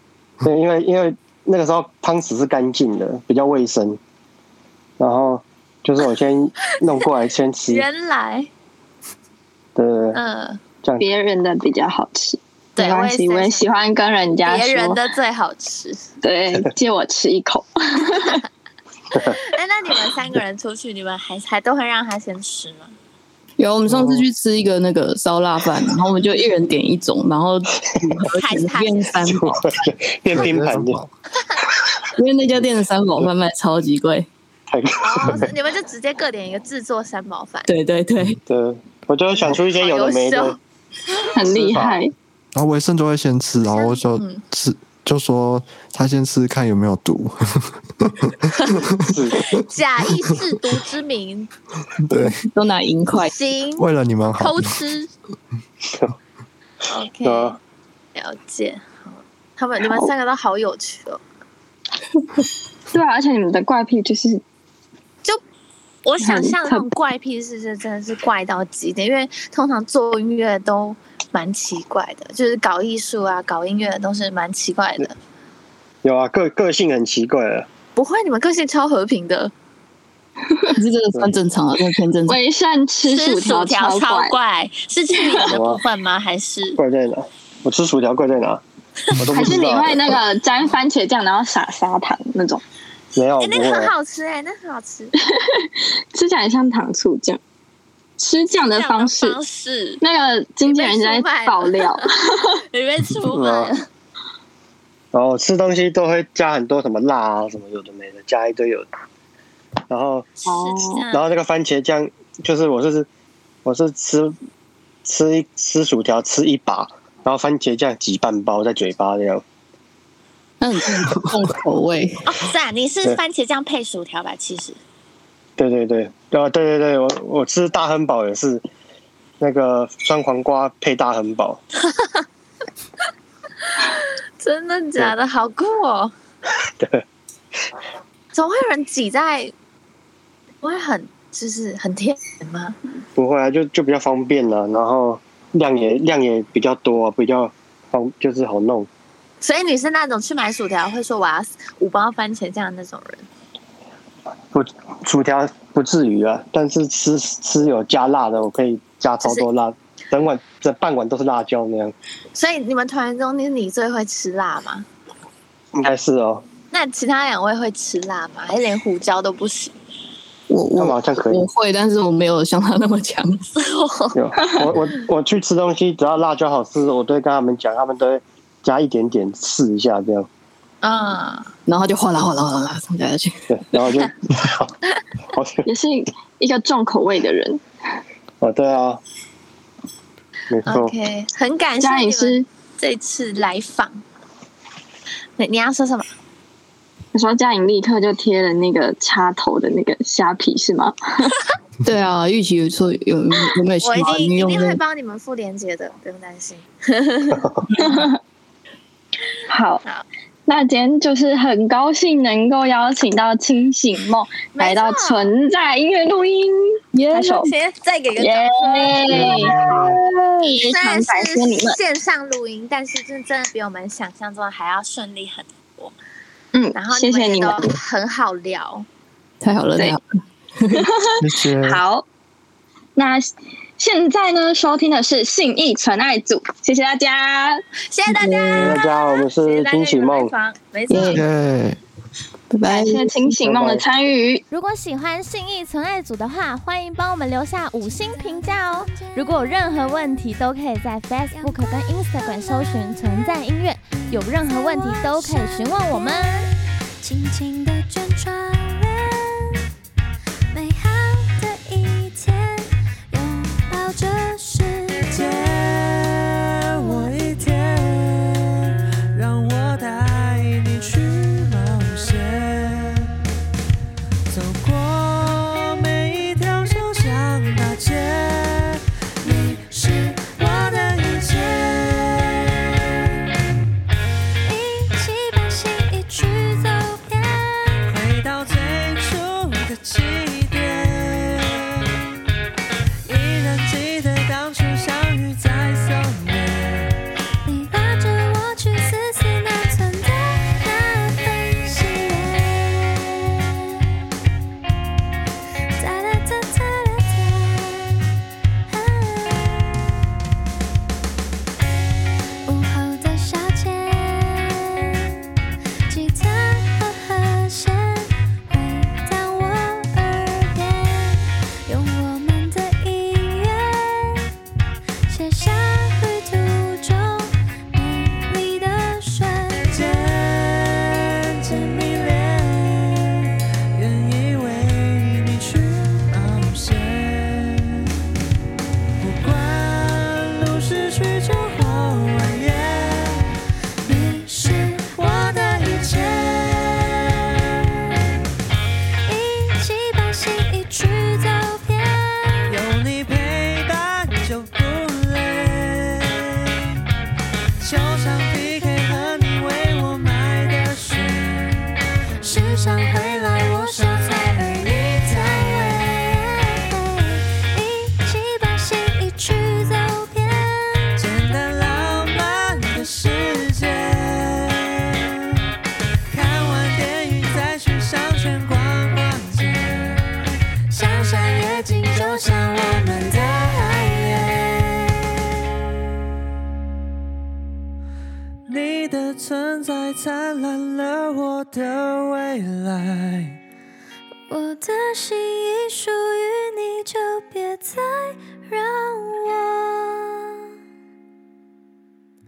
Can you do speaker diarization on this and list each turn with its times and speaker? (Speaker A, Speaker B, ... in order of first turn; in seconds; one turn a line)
Speaker A: 0.4-4.0
Speaker A: 5.0-7.8
Speaker B: 7.7-8.5
Speaker A: 9.8-10.2
Speaker B: 10.1-10.6
Speaker C: 11.0-15.0
Speaker B: 12.8-13.9
Speaker B: 14.4-16.1
Speaker C: 16.2-18.4
Speaker A: 19.1-19.4
Speaker B: 19.1-22.9
Speaker D: 23.6-29.9
Speaker B: 28.4-29.2
Speaker A: 29.2-31.0
Speaker E: 30.3-31.1
Speaker D: 32.2-34.3
Speaker A: 34.7-35.5
Speaker B: 35.0-37.7
Speaker D: 37.7-38.4
Speaker A: 38.5-40.6
Speaker B: 39.4-40.6
Speaker C: 41.3-42.1
Speaker A: 41.4-42.0
Speaker E: 42.5-48.9
Speaker B: 43.6-44.4
Speaker A: 49.0-49.5
Speaker B: 49.5-51.5
Speaker E: 52.0-52.4
Speaker D: 52.1-53.3
Speaker B: 53.2-53.9
Speaker E: 53.8-54.8
Speaker B: 54.4-55.1
Speaker A: 55.9-56.1
Speaker B: 56.9-57.6
Speaker A: 57.2-57.6
Speaker B: 58.1-61.2
Speaker C: 59.8-60.1
Speaker C: 62.9-64.4
Speaker B: 66.0-75.2
Speaker C: 66.2-66.9
Speaker A: 76.0-77.7
Speaker B: 78.0-79.5
Speaker C: 80.5-80.7
Speaker D: 80.8-82.4
Speaker C: 82.3-84.4
Speaker B: 83.0-86.8
Speaker A: 85.5-85.8
Speaker A: 86.8-88.6
Speaker A: 89.1-90.2
Speaker C: 89.3-92.6
Speaker A: 93.1-93.9
Speaker B: 93.4-95.1
Speaker C: 95.2-97.4
Speaker C: 98.2-99.4
Speaker B: 98.7-100.0
Speaker C: 100.0-102.6
Speaker B: 100.7-103.8
Speaker A: 103.3-103.7
Speaker A: 105.1-108.9
Speaker A: 109.9-110.3
Speaker B: 110.4-111.2
Speaker C: 110.5-111.0
Speaker A: 111.1-113.1
Speaker A: 113.7-114.4
Speaker A: 115.0-119.4
Speaker D: 120.6-122.3
Speaker B: 122.3-124.8
Speaker A: 125.6-128.6
Speaker A: 129.4-131.6
Speaker B: 131.8-132.2
Speaker B: 133.7-136.1
Speaker A: 136.8-137.0
Speaker B: 138.3-139.5
Speaker B: 140.6-142.8
Speaker A: 143.2-148.9
Speaker B: 149.4-153.3
Speaker A: 154.5-161.9
Speaker B: 162.3-164.8
Speaker A: 165.7-166.4
Speaker B: 166.7-169.7
Speaker D: 170.5-173.5
Speaker A: 170.8-171.4
Speaker B: 173.6-174.2
Speaker A: 174.1-180.3
Speaker B: 180.8-181.5
Speaker D: 181.7-183.5
Speaker A: 183.5-184.8
Speaker A: 185.3-185.7
Speaker C: 185.7-187.6
Speaker A: 188.4-189.0
Speaker A: 190.5-190.9
Speaker B: 190.7-194.0
Speaker C: 191.8-192.5
Speaker B: 195.4-196.1
Speaker C: 197.1-201.4
Speaker D: 201.8-204.8
Speaker B: 203.8-207.5
Speaker A: 207.3-207.6
Speaker D: 207.7-208.1
Speaker C: 207.8-208.2
Speaker C: 209.5-209.8
Speaker C: 210.5-217.5
Speaker B: 214.6-215.3
Speaker D: 216.9-217.5
Speaker B: 217.2-219.5
Speaker C: 218.2-221.8
Speaker A: 219.1-220.0
Speaker B: 220.4-225.9
Speaker C: 226.5-227.8
Speaker B: 226.7-228.9
Speaker D: 229.4-230.0
Speaker D: 230.6-230.9
Speaker C: 230.8-232.0
Speaker E: 231.2-231.8
Speaker C: 233.0-237.6
Speaker B: 237.9-241.2
Speaker D: 238.1-238.8
Speaker A: 238.6-240.3
Speaker D: 240.9-241.2
Speaker C: 240.9-241.2
Speaker E: 241.1-241.8
Speaker D: 242.5-243.4
Speaker C: 242.7-244.4
Speaker A: 243.4-243.8
Speaker F: 244.5-256.4
Speaker G: 247.8-249.7
Speaker G: 251.3-253.4
Speaker G: 253.9-259.6
Speaker G: 260.5-265.1
Speaker H: 265.1-268.6
Speaker G: 266.9-267.4
Speaker H: 269.1-273.1
Speaker H: 274.3-282.4
Speaker G: 284.4-287.9
Speaker H: 287.9-292.0
Speaker H: 293.1-296.9
Speaker G: 297.4-303.2
Speaker G: 305.7-307.9
Speaker G: 308.7-309.9
Speaker G: 312.4-314.7
Speaker G: 315.9-324.3
Speaker G: 325.1-329.8
Speaker H: 329.7-333.1
Speaker H: 333.7-337.8
Speaker H: 339.0-346.9
Speaker G: 343.9-344.9
Speaker G: 345.6-345.9
Speaker G: 349.1-352.6
Speaker H: 352.5-356.5
Speaker H: 357.6-366.1
Speaker G: 362.3-371.0
Speaker H: 371.0-374.7
Speaker H: 376.1-380.0
Speaker H: 380.7-384.8
Speaker G: 381.3-383.9
Speaker H: 388.5-393.4
Speaker G: 394.3-400.3